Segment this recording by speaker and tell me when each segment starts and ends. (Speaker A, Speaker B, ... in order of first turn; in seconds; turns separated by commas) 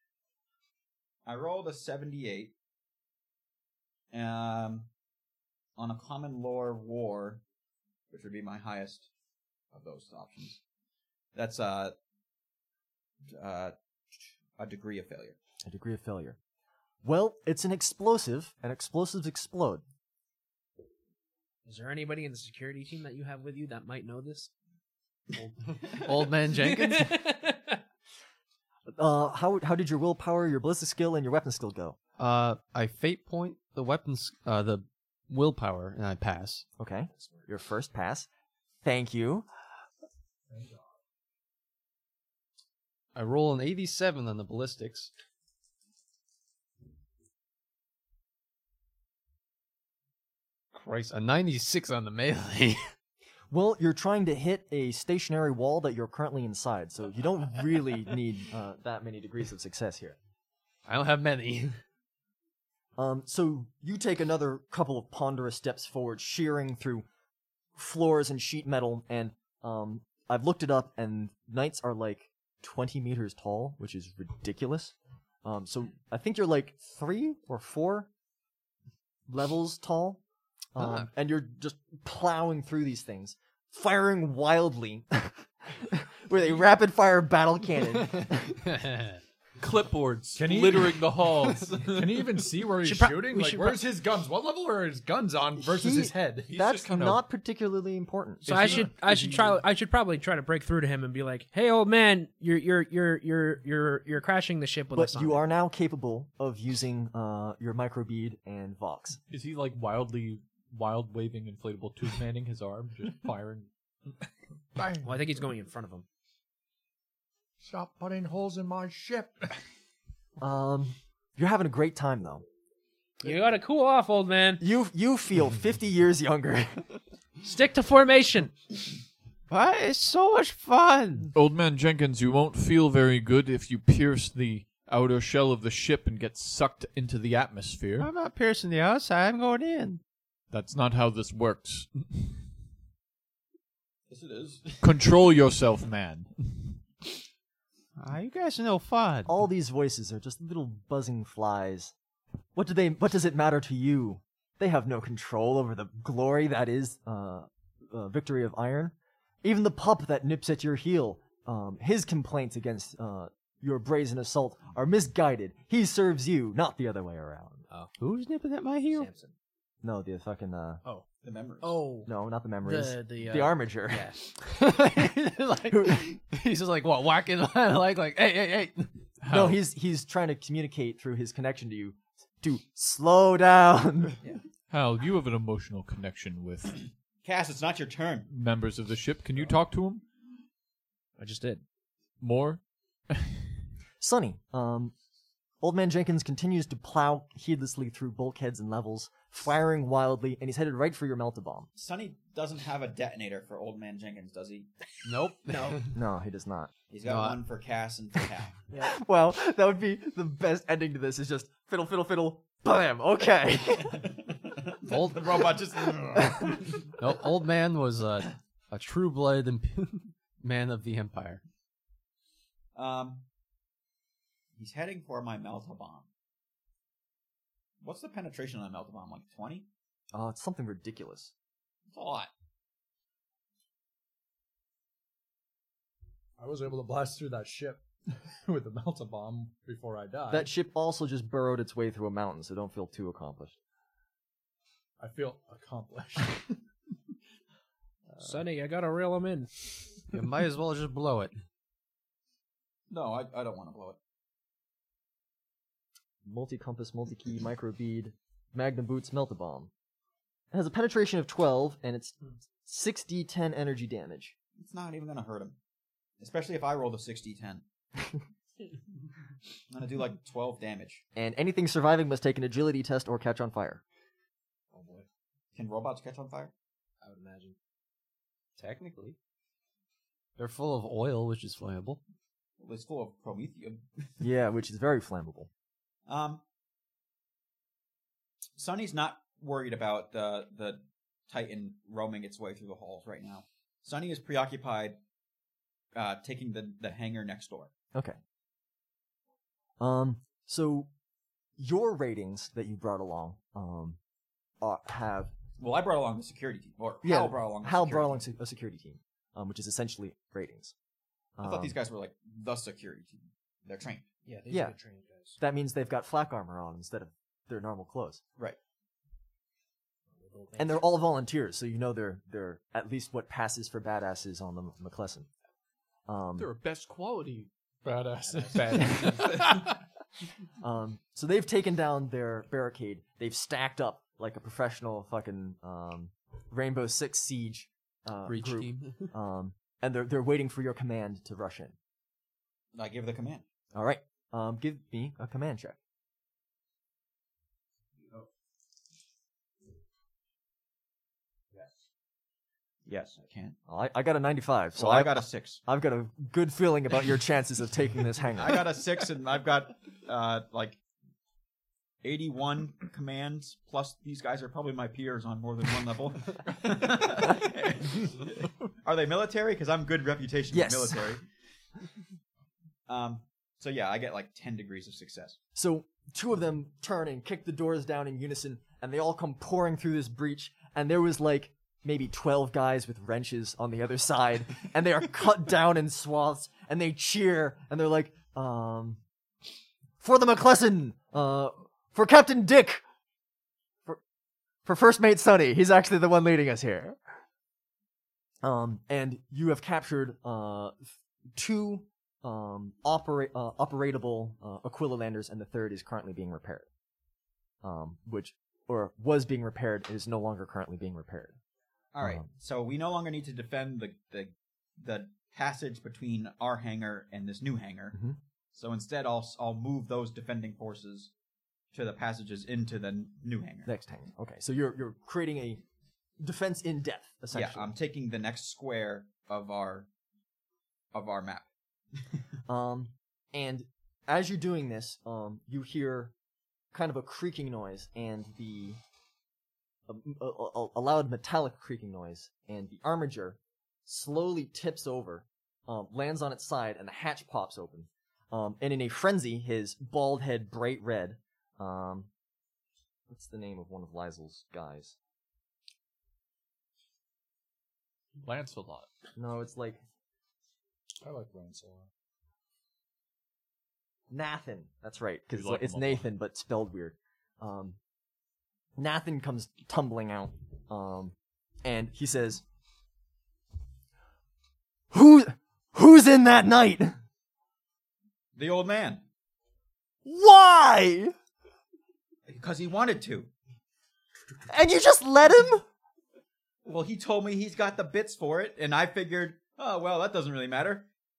Speaker A: 1.2-2.5, Speaker A: 4.1-4.9, Speaker A: 5.8-7.4, Speaker A: 8.1-9.1, Speaker A: 9.7-10.6, Speaker A: 11.3-12.0, Speaker A: 13.3-15.4, Speaker B: 15.7-16.4, Speaker B: 17.0-19.8, Speaker C: 21.6-24.5, Speaker D: 25.9-27.2, Speaker C: 26.4-27.8, Speaker B: 28.9-32.0, Speaker D: 32.2-36.7, Speaker B: 36.8-38.3, Speaker C: 37.2-37.5, Speaker B: 38.8-39.5, Speaker E: 40.5-40.9, Speaker D: 43.1-45.1, Speaker D: 50.7-52.8, Speaker B: 53.5-60.2, Speaker D: 60.9-61.8, Speaker B: 63.0-67.1, Speaker B: 67.8-78.1, Speaker B: 79.3-80.2, Speaker B: 80.8-88.6, Speaker D: 88.8-89.1, Speaker F: 89.6-92.2, Speaker E: 90.4-96.5, Speaker C: 92.8-93.8, Speaker B: 95.6-98.5, Speaker F: 96.5-97.2, Speaker F: 98.5-99.5, Speaker C: 98.5-105.4, Speaker E: 98.5-99.4, Speaker B: 104.9-109.2, Speaker F: 109.3-113.7, Speaker E: 114.8-115.1, Speaker C: 115.0-116.1, Speaker E: 117.6-119.5, Speaker B: 120.4-122.4, Speaker C: 123.2-124.6, Speaker B: 124.6-126.9, Speaker C: 127.4-128.6, Speaker D: 129.5-131.3, Speaker F: 131.3-138.1, Speaker D: 138.0-140.0, Speaker F: 140.5-142.4, Speaker A: 144.1-144.9, Speaker F: 144.8-146.8, Speaker D: 148.0-149.3, Speaker B: 149.3-151.9, Speaker B: 152.6-167.7, Speaker D: 168.0-169.1, Speaker C: 168.9-169.3, Speaker B: 169.8-170.8, Speaker A: 171.2-171.8, Speaker C: 171.6-172.1, Speaker B: 172.1-174.1, Speaker C: 172.6-174.2, Speaker D: 174.2-179.1, Speaker B: 175.7-176.1, Speaker F: 179.2-179.6, Speaker B: 179.3-184.2, Speaker F: 184.7-186.8, Speaker A: 187.2-188.3, Speaker F: 188.3-190.0, Speaker C: 191.2-191.6, Speaker F: 192.2-193.5, Speaker B: 194.0-194.9, Speaker B: 195.6-201.7, Speaker A: 201.8-204.7, Speaker D: 205.1-205.9, Speaker C: 205.5-205.8, Speaker B: 205.9-206.7, Speaker A: 206.9-208.6, Speaker D: 207.1-207.4, Speaker B: 208.8-214.1, Speaker A: 214.7-216.7, Speaker D: 214.9-215.5, Speaker D: 217.0-221.4, Speaker A: 222.8-223.2, Speaker A: 224.6-226.1, Speaker A: 227.8-229.7, Speaker B: 230.1-231.3, Speaker A: 231.9-232.3, Speaker E: 236.4-237.9, Speaker E: 238.4-240.5, Speaker B: 240.3-243.6, Speaker E: 245.0-246.6, Speaker C: 248.2-249.5, Speaker D: 250.1-251.3, Speaker A: 252.9-254.0, Speaker B: 256.2-259.7, Speaker B: 260.5-264.4, Speaker A: 264.6-265.6, Speaker A: 266.2-267.6, Speaker A: 269.7-271.0, Speaker B: 271.1-273.8, Speaker C: 274.7-275.0, Speaker A: 275.5-276.5, Speaker C: 277.0-277.6, Speaker D: 278.6-279.2, Speaker D: 280.4-282.0, Speaker A: 282.6-284.2, Speaker B: 284.2-285.5, Speaker A: 286.1-286.4, Speaker A: 288.6-295.0, Speaker A: 295.9-297.7, Speaker B: 299.8-300.9, Speaker B: 301.6-304.0, Speaker B: 304.6-305.3, Speaker A: 305.6-308.2, Speaker B: 307.0-310.7, Speaker B: 311.4-311.8, Speaker A: 311.4-314.1, Speaker C: 314.3-315.4, Speaker B: 314.5-314.8, Speaker B: 315.4-318.2, Speaker C: 320.2-320.8, Speaker B: 320.6-325.3, Speaker B: 326.1-326.5, Speaker F: 326.4-327.5, Speaker E: 327.8-329.8, Speaker C: 328.2-329.3, Speaker F: 328.5-329.4, Speaker B: 330.6-341.8, Speaker D: 338.3-339.1, Speaker A: 342.7-343.4, Speaker B: 343.7-345.8, Speaker A: 352.9-353.6, Speaker B: 353.7-358.6, Speaker A: 354.8-355.6, Speaker A: 358.4-360.8, Speaker A: 362.0-371.2, Speaker B: 370.5-371.2, Speaker A: 372.9-375.4, Speaker B: 375.6-389.0, Speaker B: 390.0-392.8, Speaker B: 394.6-397.0, Speaker B: 398.4-406.7, Speaker B: 407.6-411.4, Speaker A: 411.9-418.0, Speaker A: 418.5-421.1, Speaker A: 421.7-423.7, Speaker B: 423.7-425.6, Speaker B: 426.2-427.7, Speaker A: 427.3-429.9, Speaker A: 430.9-431.5, Speaker B: 432.5-436.1, Speaker B: 436.7-438.8, Speaker B: 439.9-452.1, Speaker B: 453.1-455.0, Speaker F: 458.2-458.9, Speaker B: 459.2-459.8, Speaker E: 461.0-461.9, Speaker B: 464.1-467.8, Speaker F: 465.3-466.1, Speaker B: 468.8-472.4, Speaker B: 474.9-477.0, Speaker A: 478.4-479.0, Speaker B: 480.1-481.1, Speaker A: 482.3-483.3, Speaker B: 484.5-485.6, Speaker A: 486.6-490.9